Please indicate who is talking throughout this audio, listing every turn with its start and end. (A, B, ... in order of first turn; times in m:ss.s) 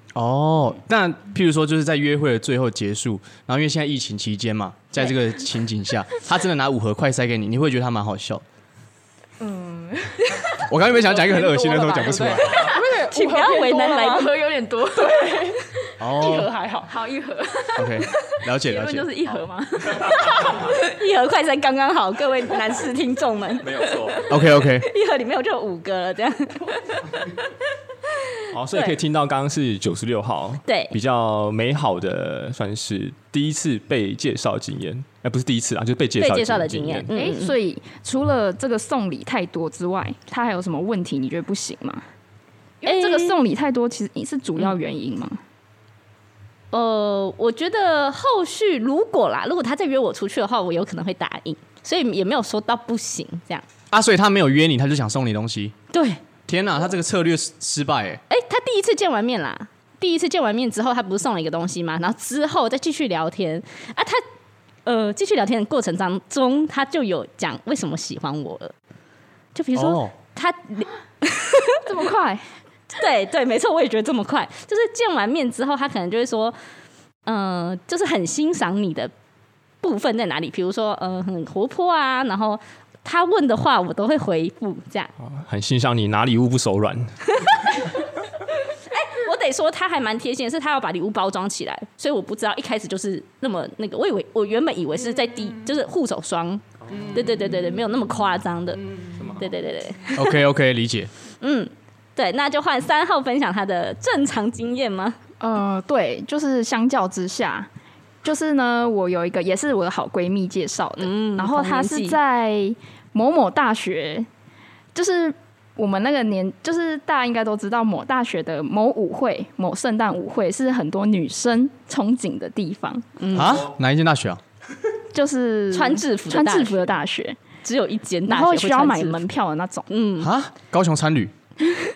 0:00.2-0:08.4 A
0:09.4-0:12.9 B
0:10.6-0:12.6 A
0:11.1-0:14.0 C
0:12.6-0:14.3 D
0:13.7-0:15.5 B
0:15.0-0:15.6 C
0:16.0-0:16.5 A
0:16.2-0:16.9 C
0:16.9-0:20.8 B
0:17.8-0:19.1 A
0:20.6-0:27.0 D
0:23.6-0:24.2 E
0:24.3-0:24.9 A
0:28.5-0:37.1 E
0:30.7-0:31.0 D
0:36.2-0:37.5 D
0:37.1-0:42.0 B
0:42.8-0:43.4 D
0:42.8-0:45.4 B
0:46.7-0:53.6 D
0:53.9-0:55.8 A
0:55.9-0:56.2 D
0:56.5-0:58.2 A
0:58.3-1:04.2 D
1:04.9-1:08.7 D
1:09.6-1:11.8 D
1:09.8-1:10.1 A
1:11.9-1:12.4 B
1:13.0-1:16.6 D
1:17.3-1:19.1 D
1:19.8-1:25.1 D
1:25.2-1:27.2 E
1:27.4-1:27.8 D
1:28.7-1:40.4 D
1:36.9-1:37.1 E
1:36.9-1:37.6 C
1:38.8-1:39.3 C
1:39.2-1:39.4 E
1:40.2-1:41.1 A
1:41.4-1:45.2 D
1:45.4-1:47.7 B
1:48.2-1:54.3 B
1:51.0-1:52.2 D
1:54.9-2:03.1 B
2:03.2-2:03.7 D
2:03.3-2:04.4 A
2:05.1-2:07.4 B
2:05.7-2:06.9 D
2:07.6-2:09.2 D
2:08.3-2:09.9 B
2:09.9-2:10.3 D
2:10.2-2:11.3 A